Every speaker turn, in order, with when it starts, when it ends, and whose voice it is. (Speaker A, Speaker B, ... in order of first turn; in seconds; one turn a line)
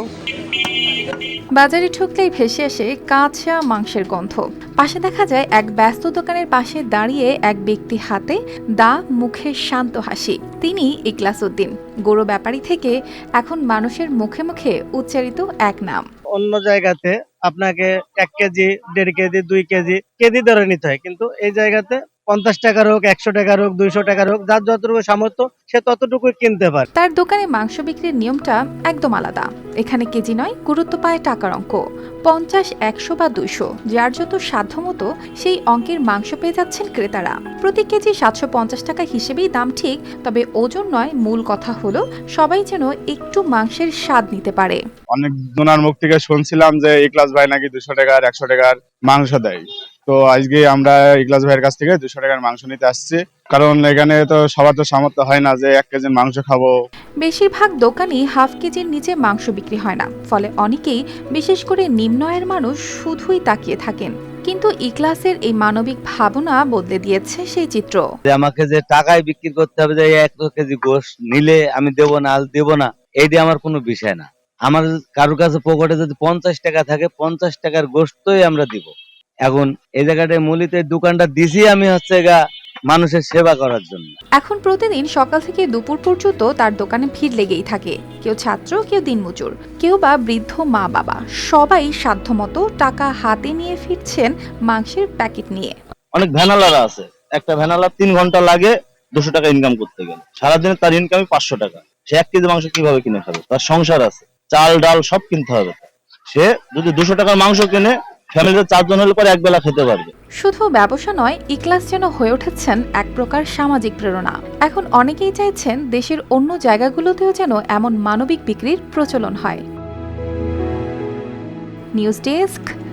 Speaker A: 1.5-16.0
Speaker B: 16.4-26.9
Speaker A: 26.9-44.8
Speaker C: 45.1-56.7
Speaker A: 57.2-68.0
Speaker D: 68.2-78.9
Speaker D: 79.4-82.4
Speaker D: 82.9-84.1
Speaker A: 84.4-95.7
Speaker E: 96.1-110.1
Speaker A: 110.4-119.6
Speaker A: 122.0-122.7